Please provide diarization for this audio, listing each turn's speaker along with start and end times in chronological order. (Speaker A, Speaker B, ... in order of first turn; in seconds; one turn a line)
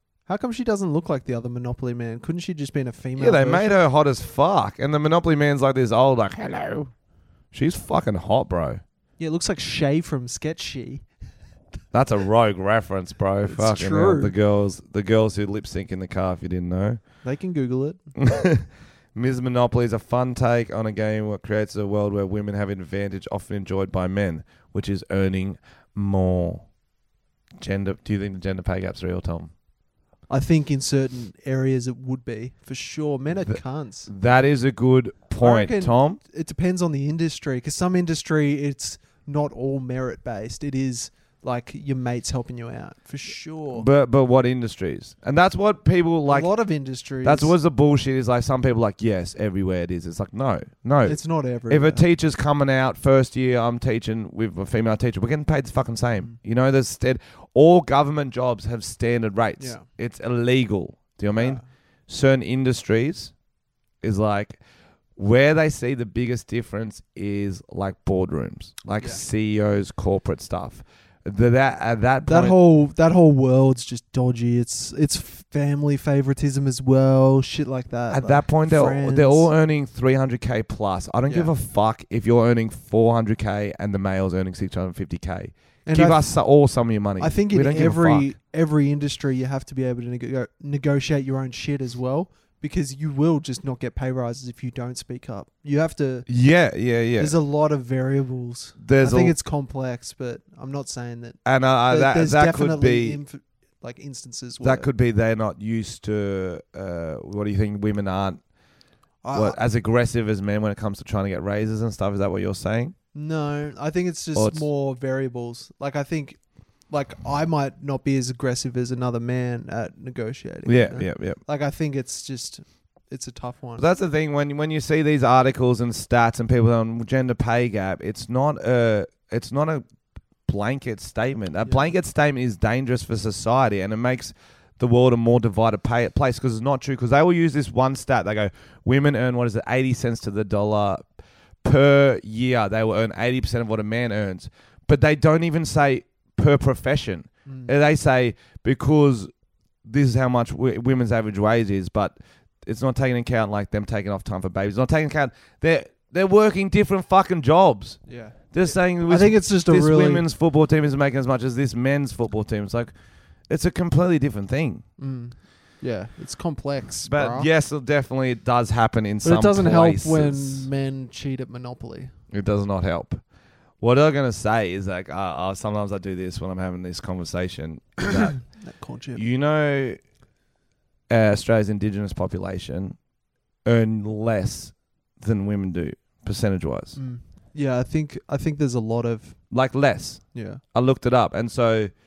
Speaker A: 0.3-3.8
Speaker B: 3.2-6.9
Speaker B: 7.5-8.8
Speaker A: 9.2-11.1
Speaker B: 11.9-17.0
Speaker A: 13.5-14.3
Speaker A: 17.2-18.0
Speaker B: 18.1-26.7
Speaker B: 27.6-29.5
Speaker A: 30.3-34.1
Speaker B: 33.5-36.2
Speaker A: 35.4-43.9
Speaker B: 43.7-46.5
Speaker A: 46.3-47.5
Speaker B: 47.2-63.3
Speaker A: 51.0-52.0
Speaker A: 59.6-59.9
Speaker A: 61.4-61.6
Speaker B: 64.0-64.6
Speaker B: 65.2-72.6
Speaker A: 72.3-79.5
Speaker B: 78.1-88.3
Speaker A: 85.9-86.3
Speaker A: 87.2-96.3
Speaker B: 96.3-97.3
Speaker A: 97.2-104.9
Speaker B: 98.8-99.3
Speaker B: 101.5-103.2
Speaker B: 104.6-108.4
Speaker A: 109.2-109.6
Speaker B: 109.3-113.0
Speaker A: 113.2-123.8
Speaker B: 114.3-114.7
Speaker B: 120.7-121.4
Speaker B: 123.8-129.8
Speaker B: 130.5-141.1
Speaker B: 141.6-149.3
Speaker A: 147.5-147.7
Speaker B: 149.8-162.9
Speaker A: 158.1-158.4
Speaker A: 159.1-160.2
Speaker B: 163.5-164.8
Speaker A: 165.0-167.5
Speaker B: 167.1-170.7
Speaker A: 169.2-172.1
Speaker B: 172.3-173.2
Speaker B: 173.8-178.4
Speaker A: 178.1-179.2
Speaker B: 179.2-180.0
Speaker B: 181.1-183.0
Speaker B: 183.7-187.0
Speaker A: 187.0-189.4
Speaker B: 189.5-191.9
Speaker A: 190.3-190.6